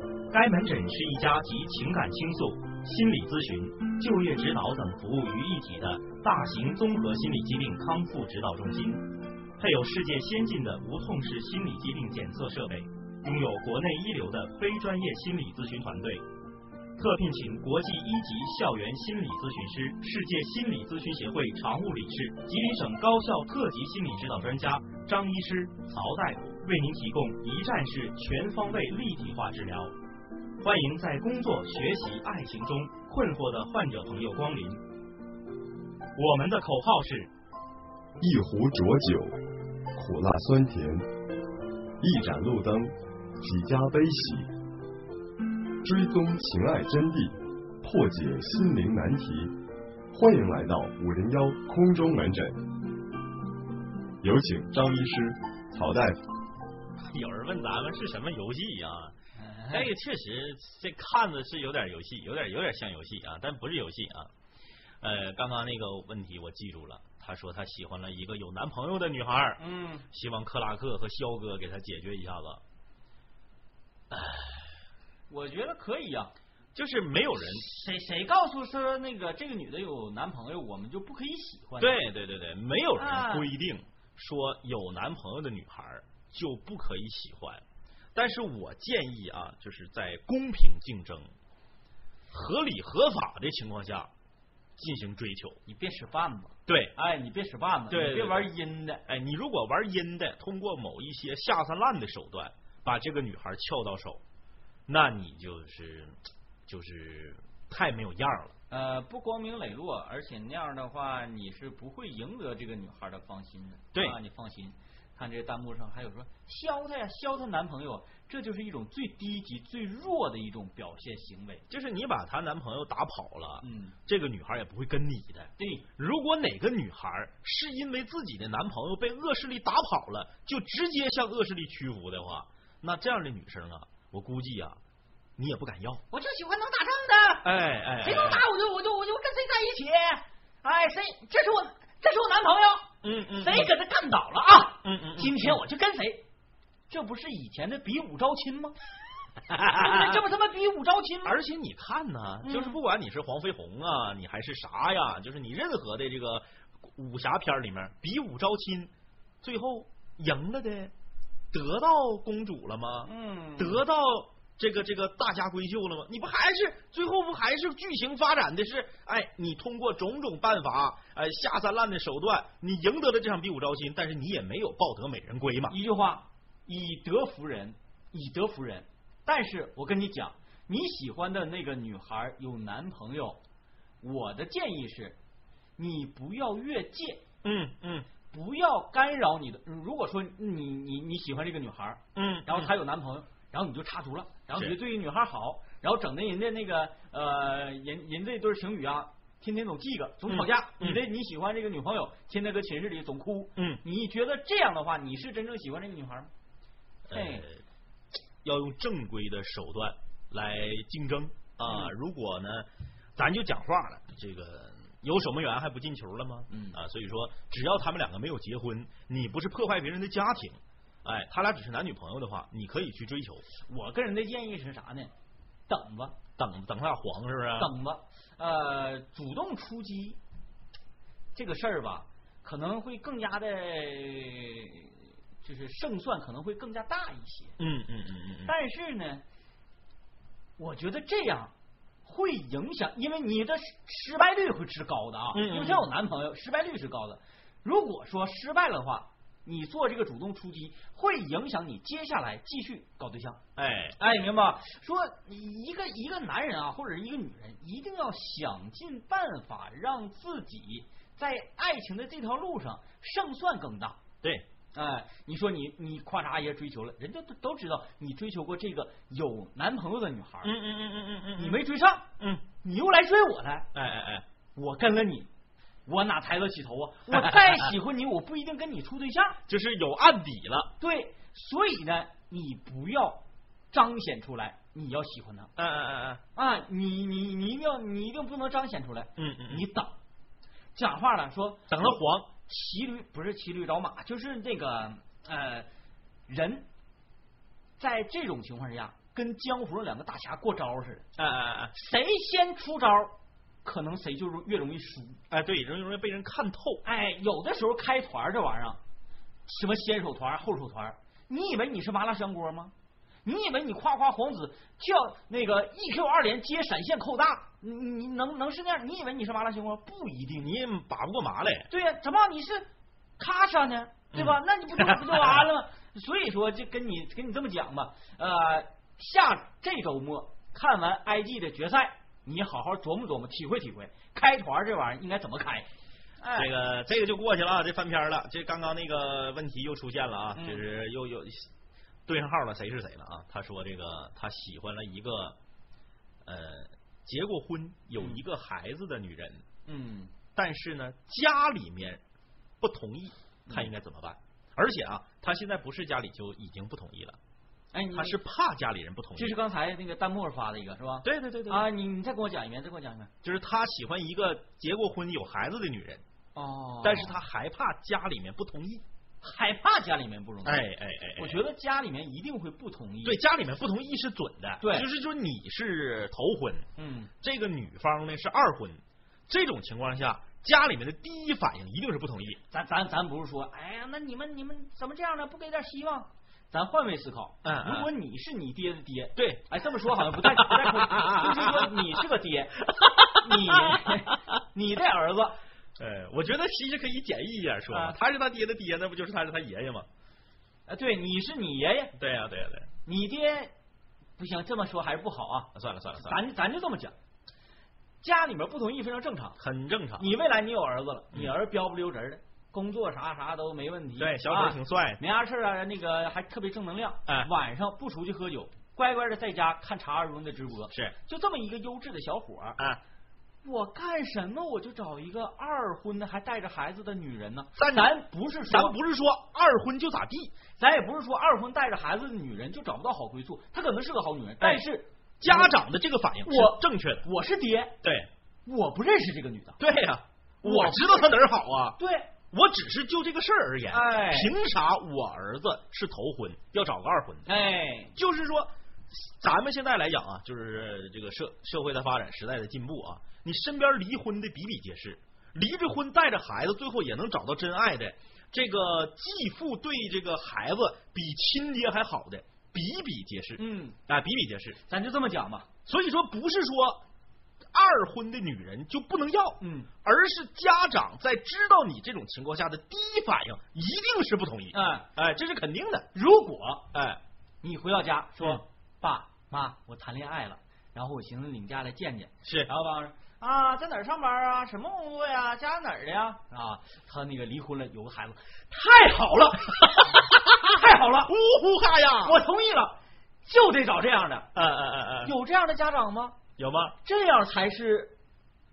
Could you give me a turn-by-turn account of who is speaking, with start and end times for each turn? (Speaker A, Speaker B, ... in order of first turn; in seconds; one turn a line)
Speaker A: 0.3-16.2
Speaker A: 17.0-29.9
Speaker A: 30.6-34.8
Speaker A: 36.1-37.3
Speaker B: 38.2-39.4
Speaker B: 39.9-41.1
Speaker B: 42.0-44.5
Speaker B: 45.8-49.6
Speaker B: 50.1-52.6
Speaker B: 54.2-56.2
Speaker C: 57.0-59.1
Speaker D: 59.4-59.9
Speaker C: 59.7-64.3
Speaker C: 65.0-72.6
Speaker D: 69.6-70.0
Speaker C: 74.1-74.7
Speaker D: 75.3-76.3
Speaker C: 76.7-77.6
Speaker D: 77.4-82.0
Speaker C: 81.8-87.6
Speaker D: 83.0-83.5
Speaker C: 88.1-91.3
Speaker C: 92.3-94.1
Speaker C: 94.8-95.6
Speaker D: 95.7-99.0
Speaker C: 96.7-96.9
Speaker C: 97.9-98.5
Speaker C: 99.0-104.2
Speaker C: 104.9-106.1
Speaker C: 106.7-108.5
Speaker D: 108.7-121.6
Speaker C: 121.7-134.8
Speaker D: 123.6-123.9
Speaker D: 125.6-125.8
Speaker C: 135.4-136.0
Speaker D: 136.1-137.5
Speaker C: 137.4-138.4
Speaker D: 138.0-146.2
Speaker C: 143.0-143.7
Speaker C: 144.8-145.6
Speaker D: 146.9-148.8
Speaker C: 149.5-150.2
Speaker D: 149.7-151.4
Speaker C: 151.2-158.9
Speaker D: 152.4-152.8
Speaker C: 159.4-160.9
Speaker C: 161.5-175.8
Speaker D: 163.0-163.8
Speaker D: 175.7-183.4
Speaker D: 184.0-185.2
Speaker D: 185.8-187.2
Speaker C: 187.4-188.1
Speaker D: 188.3-206.3
Speaker C: 192.1-192.7
Speaker C: 200.3-201.0
Speaker C: 203.6-203.8
Speaker C: 207.1-207.6
Speaker D: 207.1-207.4
Speaker C: 208.4-223.4
Speaker D: 211.7-211.9
Speaker D: 216.5-216.8
Speaker D: 223.6-225.1
Speaker D: 225.7-226.2
Speaker C: 226.4-227.7
Speaker D: 227.6-230.2
Speaker D: 231.3-237.6
Speaker C: 237.6-238.5
Speaker D: 238.4-239.2
Speaker D: 240.6-241.5
Speaker D: 242.0-253.4
Speaker C: 245.3-245.9
Speaker C: 253.6-254.0
Speaker D: 254.0-264.0
Speaker D: 264.7-270.5
Speaker C: 270.4-271.6
Speaker D: 271.4-272.1
Speaker D: 272.6-273.7
Speaker C: 273.7-274.2
Speaker D: 274.6-275.3
Speaker D: 275.9-279.4
Speaker C: 279.5-280.7
Speaker D: 280.8-285.5
Speaker C: 285.6-286.2
Speaker D: 286.3-289.9
Speaker C: 289.2-289.6
Speaker D: 290.7-295.7
Speaker C: 291.7-292.3
Speaker D: 296.3-296.7
Speaker D: 297.8-301.1
Speaker C: 301.2-301.7
Speaker D: 301.7-305.2
Speaker C: 305.3-306.8
Speaker D: 306.8-308.8
Speaker D: 309.4-312.7
Speaker D: 313.2-320.4
Speaker C: 320.4-321.7
Speaker D: 321.7-322.7
Speaker D: 323.2-335.7
Speaker C: 324.1-324.4
Speaker C: 325.0-325.4
Speaker D: 336.2-336.5
Speaker C: 336.4-341.5
Speaker D: 340.4-340.6
Speaker C: 342.1-345.4
Speaker C: 346.2-349.4
Speaker D: 349.6-350.1
Speaker C: 350.3-352.0
Speaker C: 352.6-357.2
Speaker D: 357.7-358.2
Speaker C: 357.9-359.4
Speaker D: 359.2-363.1
Speaker C: 361.0-361.7
Speaker C: 363.2-366.0
Speaker D: 366.3-367.2
Speaker C: 366.8-368.8
Speaker D: 369.2-373.2
Speaker C: 370.4-371.4
Speaker C: 373.0-376.7
Speaker D: 374.6-374.9
Speaker D: 376.8-377.1
Speaker C: 377.2-382.4
Speaker D: 382.5-395.4
Speaker C: 387.4-387.9
Speaker C: 389.1-391.8
Speaker C: 393.0-393.9
Speaker C: 395.8-399.9
Speaker D: 397.7-398.0
Speaker D: 400.7-401.9
Speaker C: 402.0-402.7
Speaker D: 402.9-403.5
Speaker D: 404.2-406.9
Speaker C: 405.5-406.2
Speaker D: 408.0-409.4
Speaker C: 409.4-410.1
Speaker D: 410.0-422.6
Speaker C: 414.0-415.0
Speaker D: 423.4-428.8
Speaker C: 427.6-428.0
Speaker C: 428.5-430.3
Speaker D: 430.6-435.5
Speaker C: 435.2-437.1
Speaker D: 436.2-437.7
Speaker C: 437.8-438.1
Speaker D: 438.4-439.6
Speaker C: 439.6-441.8
Speaker D: 440.4-441.1
Speaker D: 441.8-442.1
Speaker C: 442.3-447.3
Speaker D: 443.7-444.3
Speaker D: 447.2-447.9
Speaker C: 447.9-464.6
Speaker D: 463.4-463.8
Speaker D: 464.7-465.5
Speaker C: 465.6-466.8
Speaker C: 467.5-475.9
Speaker D: 469.4-469.7
Speaker D: 474.5-474.9
Speaker D: 475.9-476.7
Speaker C: 476.7-477.0
Speaker D: 477.4-491.1
Speaker C: 482.2-482.5
Speaker C: 491.1-492.2
Speaker D: 492.0-494.3
Speaker C: 494.3-495.1
Speaker D: 495.0-496.2
Speaker C: 496.4-496.8
Speaker D: 496.8-497.9